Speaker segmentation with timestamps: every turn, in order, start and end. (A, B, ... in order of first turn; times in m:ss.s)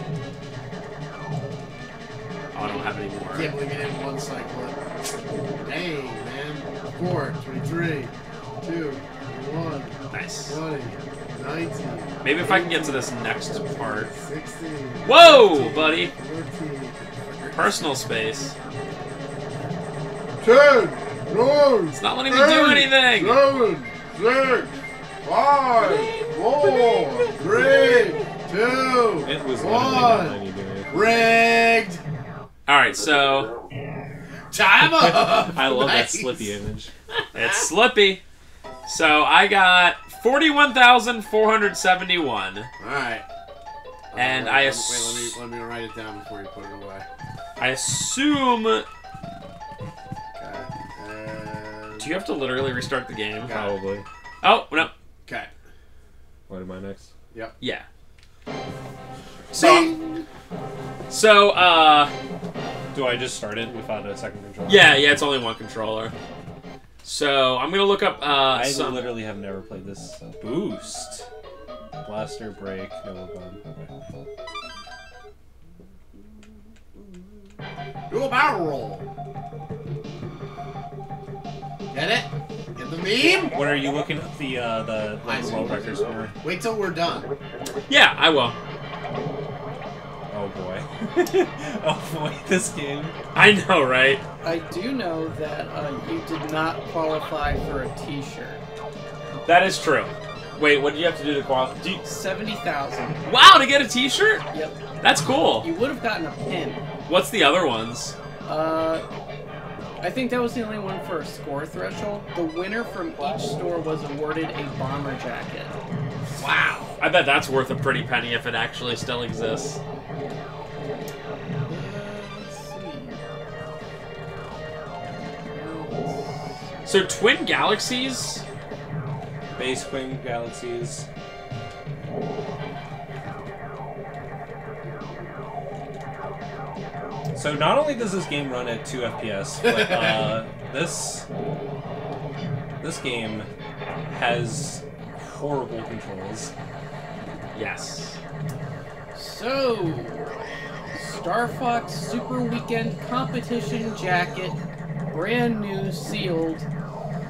0:02.5-0:03.6 A
0:03.3-0:04.8 B
0:05.6-0:10.0 B
0:10.1-0:10.6 A
0:10.5-0:13.1 B
0:12.2-0:14.1 A
0:13.8-0:17.9 B
0:15.1-0:16.1 A
0:17.5-0:18.5 A
0:20.4-0:30.4 B
0:21.9-0:23.4 A
0:26.6-0:28.2 C
0:29.2-0:31.1 C
0:30.9-0:32.0 B
0:32.7-0:33.5 A
0:34.5-0:36.5 B
0:34.9-0:36.9 C
0:37.3-0:38.2 A
0:37.4-0:37.6 B
0:38.9-0:42.7 A
0:42.8-0:43.3 B
0:44.1-0:47.1 B
0:44.2-0:45.4 A
0:47.6-0:48.9 A
0:50.4-0:52.1 B
0:52.0-0:53.6 A
0:53.5-0:53.7 B
0:53.5-0:54.0 C
0:54.4-0:54.9 A
0:55.3-0:55.5 B
0:56.5-0:57.1 C
0:57.6-0:57.9 A
0:59.5-1:00.0 B
0:59.5-1:00.2 A
1:01.1-1:02.1 A
1:02.9-1:05.0 C
1:04.7-1:06.1 A
1:07.0-1:09.2 A
1:08.5-1:11.3 C
1:12.0-1:13.9 C
1:18.1-1:19.1 B
1:21.9-1:23.6 B
1:23.5-1:26.3 C
1:25.2-1:27.3 B
1:27.9-1:28.6 A
1:30.3-1:33.2 C
1:33.3-1:34.2 A
1:34.4-1:38.6 D
1:39.4-1:42.0 A
1:42.0-1:43.2 D
1:43.3-1:44.4 A
1:44.5-1:44.8 D
1:45.0-1:45.7 A
1:45.6-1:46.8 D
1:47.1-1:48.2 A
1:48.5-1:49.1 D
1:50.0-1:55.8 D
1:56.4-1:56.9 B
1:57.0-1:59.8 A
2:01.7-2:03.2 D
2:05.5-2:06.3 D
2:06.8-2:08.4 A
2:09.6-2:11.1 C
2:17.4-2:21.3 C
2:22.8-2:23.5 C
2:24.1-2:26.5 C
2:27.5-2:28.2 A
2:29.2-2:30.3 D
2:30.9-2:34.6 D
2:35.1-2:36.7 D